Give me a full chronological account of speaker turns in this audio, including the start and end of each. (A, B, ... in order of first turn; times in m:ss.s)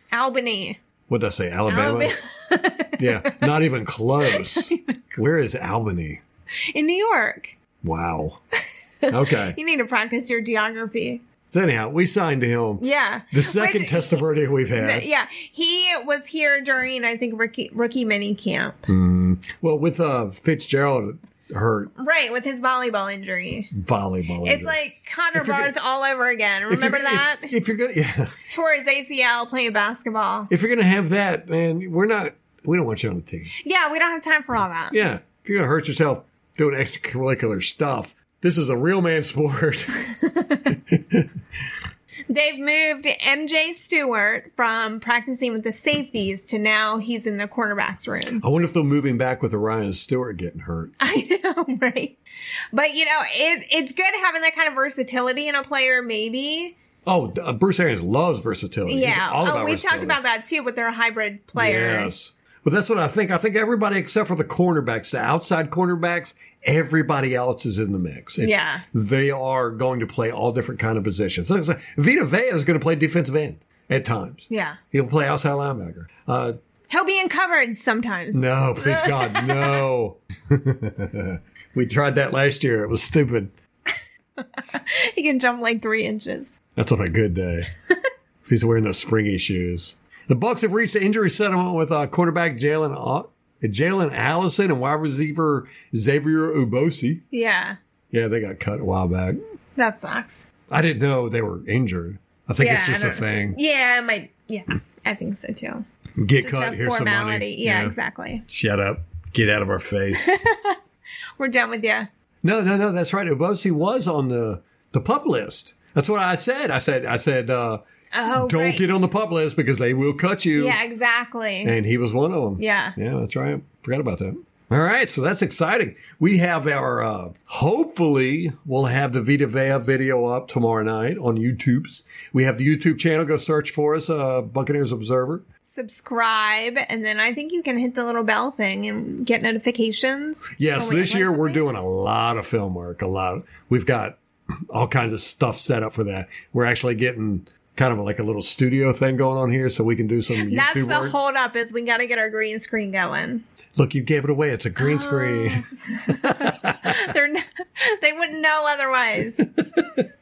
0:00.1-0:00.8 A
0:01.1-0:02.1 B
0:01.7-0:03.5 A
0:03.0-0:06.2 B
0:04.3-0:04.9 A
0:06.7-0:07.5 A
0:07.8-0:08.4 B
0:09.0-0:11.2 A
0:09.1-0:09.6 B
0:11.5-0:15.1 B
0:12.8-0:14.2 A
0:14.7-0:18.9 A
0:18.9-0:21.9 B
0:22.0-0:23.7 A
0:23.7-0:24.8 B
0:24.4-0:27.5 A
0:25.3-0:25.7 B
0:26.7-0:28.4 B
0:28.5-0:30.5 A
0:30.5-0:33.5 B
0:33.6-0:35.0 A
0:34.9-0:40.0 B
0:40.0-0:40.8 A
0:40.9-0:41.3 B
0:42.3-0:48.4 A
0:48.4-0:50.9 B
0:51.0-0:52.2 A
0:52.7-0:56.7 A
0:57.0-1:00.2 B
0:58.9-1:02.1 A
1:01.6-1:16.6 B
1:08.4-1:08.8 A
1:14.5-1:14.8 A
1:16.9-1:19.8 A
1:18.3-1:23.5 B
1:24.4-1:26.5 A
1:26.8-1:27.7 B
1:28.4-1:37.2 B
1:37.3-1:37.8 A
1:38.1-1:39.4 B
1:39.8-1:40.4 A
1:40.7-1:43.6 B
1:42.6-1:45.8 A
1:46.2-1:48.0 B
1:46.4-1:48.4 A
1:48.5-1:50.3 B
1:50.2-1:50.8 A
1:51.4-1:52.1 A
1:52.4-1:57.8 B
1:58.1-1:58.9 A
1:58.3-2:00.8 B
2:00.6-2:01.8 A
2:01.6-2:15.4 B
2:02.6-2:03.0 A
2:15.7-2:21.6 A
2:20.6-2:24.2 B
2:24.7-2:31.2 B
2:30.4-2:33.4 A
2:33.7-2:37.2 B
2:34.8-2:39.5 A